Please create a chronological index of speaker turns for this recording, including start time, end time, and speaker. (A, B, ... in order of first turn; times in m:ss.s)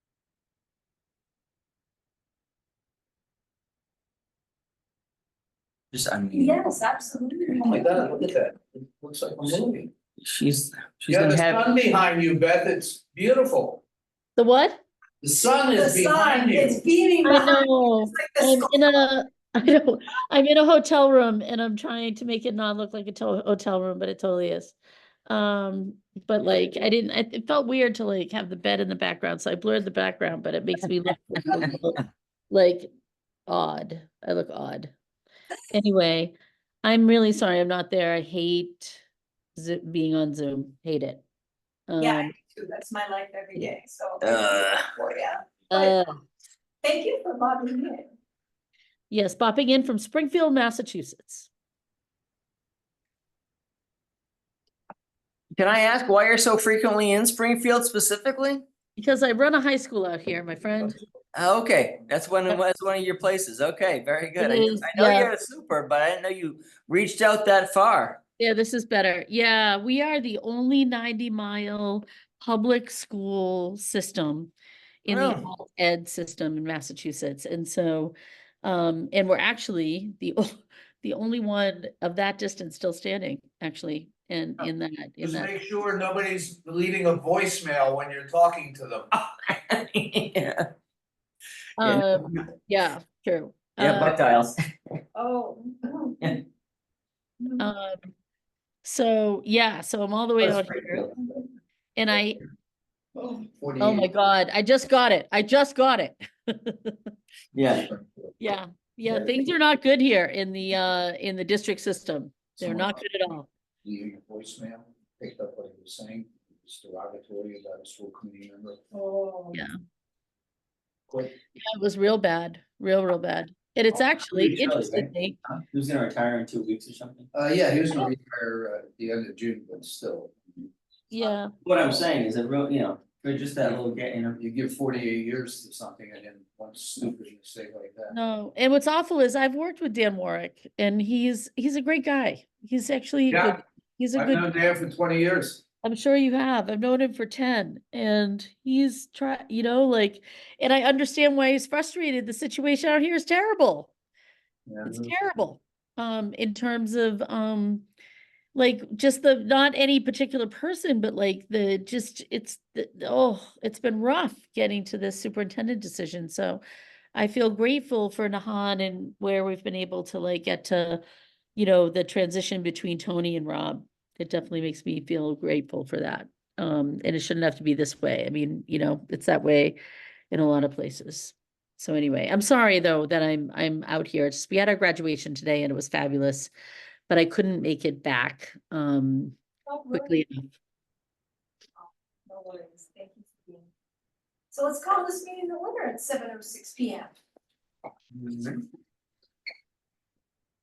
0:05.9-0:06.6 A
0:06.3-0:08.3 B
0:07.6-0:09.9 C
0:10.2-0:11.6 A
0:11.1-0:13.8 C
0:14.4-0:14.8 D
0:15.2-0:16.8 C
0:15.8-0:18.9 B
0:17.2-0:24.8 D
0:25.3-0:32.9 D
0:33.5-0:34.9 D
0:35.7-0:39.0 D
0:39.6-0:41.2 D
0:41.9-0:42.3 D
0:42.0-0:46.0 B
0:44.2-0:44.9 A
0:45.7-0:46.2 D
0:46.8-0:48.1 B
0:49.1-0:51.5 D
0:55.6-0:58.6 A
0:59.0-1:01.0 D
1:01.4-1:08.2 A
1:04.4-1:05.3 D
1:08.4-1:14.5 D
1:15.0-1:25.6 D
1:15.1-1:15.5 A
1:25.2-1:29.1 C
1:29.1-1:30.7 A
1:31.8-1:34.2 D
1:31.8-1:32.5 A
1:33.8-1:34.6 A
1:35.2-1:36.2 B
1:37.6-1:38.1 D
1:38.8-1:41.1 D
1:40.4-1:41.1 A
1:42.0-1:42.4 D
1:43.2-1:44.1 C
1:43.8-1:47.0 D
1:47.6-1:47.9 A
1:47.7-1:48.3 C
1:48.4-1:53.5 D
1:49.1-1:49.3 A
1:52.6-1:53.0 C
1:53.8-1:58.8 C
1:58.9-1:59.6 B
2:01.6-2:05.4 D
2:04.0-2:07.3 A
2:07.3-2:10.4 C
2:11.1-2:11.5 D
2:11.1-2:11.4 B
2:11.6-2:14.4 A
2:14.4-2:18.2 C
2:18.1-2:24.6 D
2:23.3-2:23.6 C
2:24.1-2:25.6 C
2:25.8-2:33.9 D
2:34.7-2:35.1 C
2:34.8-2:37.9 D
2:38.6-2:46.6 D
2:47.1-2:51.0 D
2:51.6-2:59.8 D
3:00.3-3:06.5 D
3:07.1-3:09.4 D
3:09.7-3:10.2 B
3:09.9-3:10.5 D
3:11.8-3:13.7 B
3:14.5-3:17.2 B
3:18.2-3:18.6 C